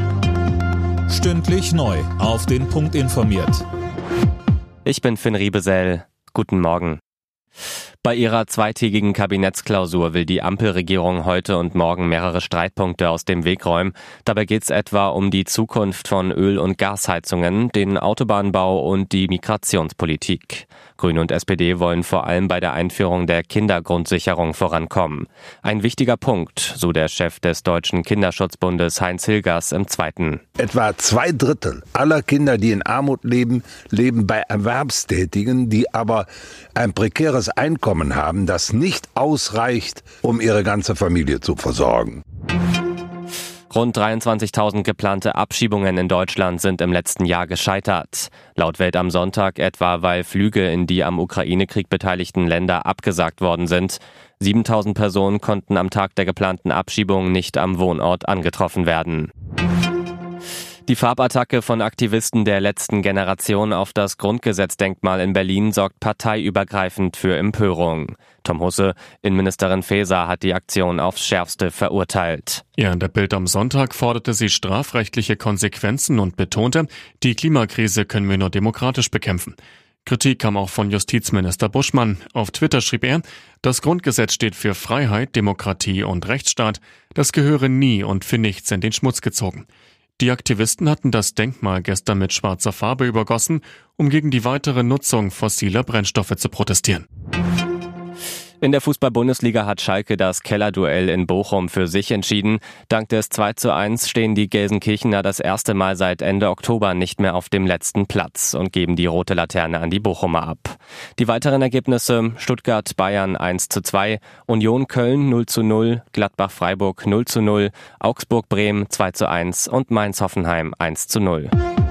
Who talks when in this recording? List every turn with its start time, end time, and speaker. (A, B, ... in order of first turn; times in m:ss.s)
0:01.1-0:03.6 A
0:04.8-0:07.0 B
0:08.0-0:30.4 B
0:30.6-0:42.2 C
0:43.7-0:59.3 B
1:00.9-1:12.6 B
1:12.8-1:29.6 D
1:30.2-1:37.0 D
1:38.6-2:01.5 B